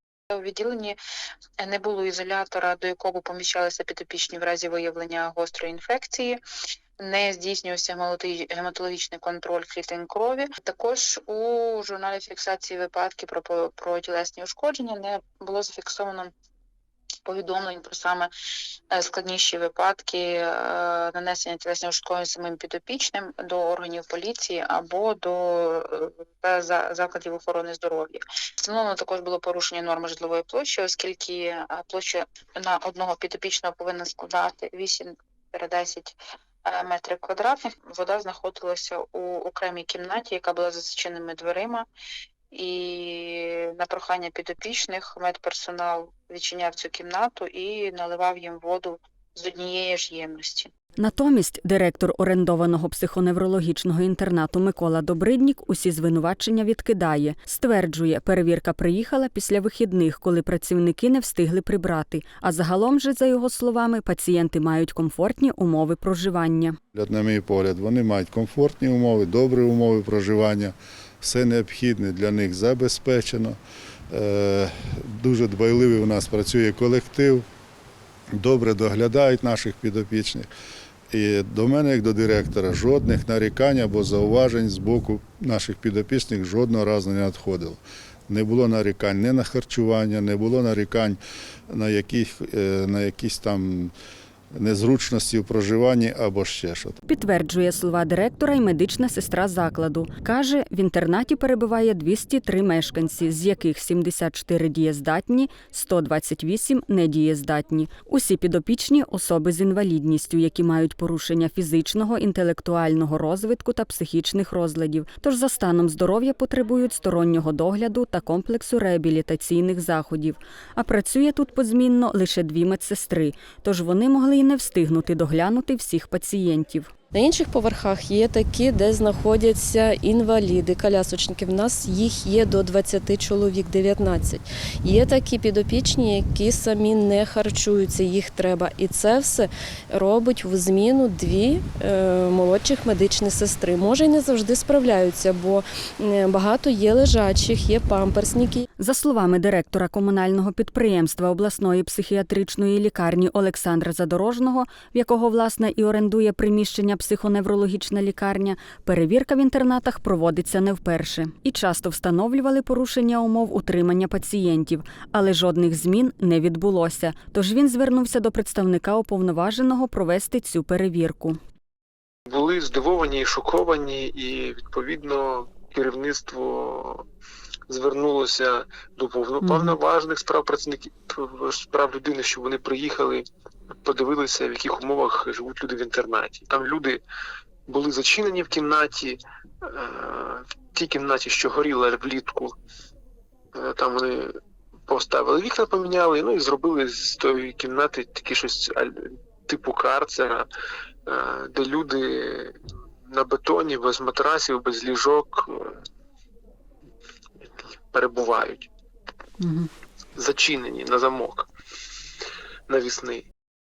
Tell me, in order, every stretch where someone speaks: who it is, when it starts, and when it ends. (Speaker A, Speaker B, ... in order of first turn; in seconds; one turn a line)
Speaker A: 0.3-1.0
Speaker A: 1.6-6.4
Speaker A: 7.0-16.3
Speaker A: 17.2-18.3
Speaker A: 18.9-41.9
Speaker A: 42.5-50.7
Speaker B: 51.0-66.8
Speaker C: 66.9-73.6
Speaker C: 74.1-77.4
Speaker C: 78.3-80.5
Speaker C: 81.1-93.9
Speaker C: 94.5-97.0
Speaker B: 97.0-126.9
Speaker D: 127.1-148.6
Speaker B: 148.8-171.4
Speaker E: 172.3-177.0
Speaker E: 177.7-183.2
Speaker B: 179.4-179.8
Speaker E: 183.8-187.0
Speaker E: 187.7-192.5
Speaker E: 193.5-194.3
Speaker E: 194.9-200.4
Speaker E: 201.1-202.6
Speaker E: 203.1-205.8
Speaker E: 207.4-208.7
Speaker B: 209.4-209.7
Speaker E: 210.2-211.5
Speaker E: 212.7-213.3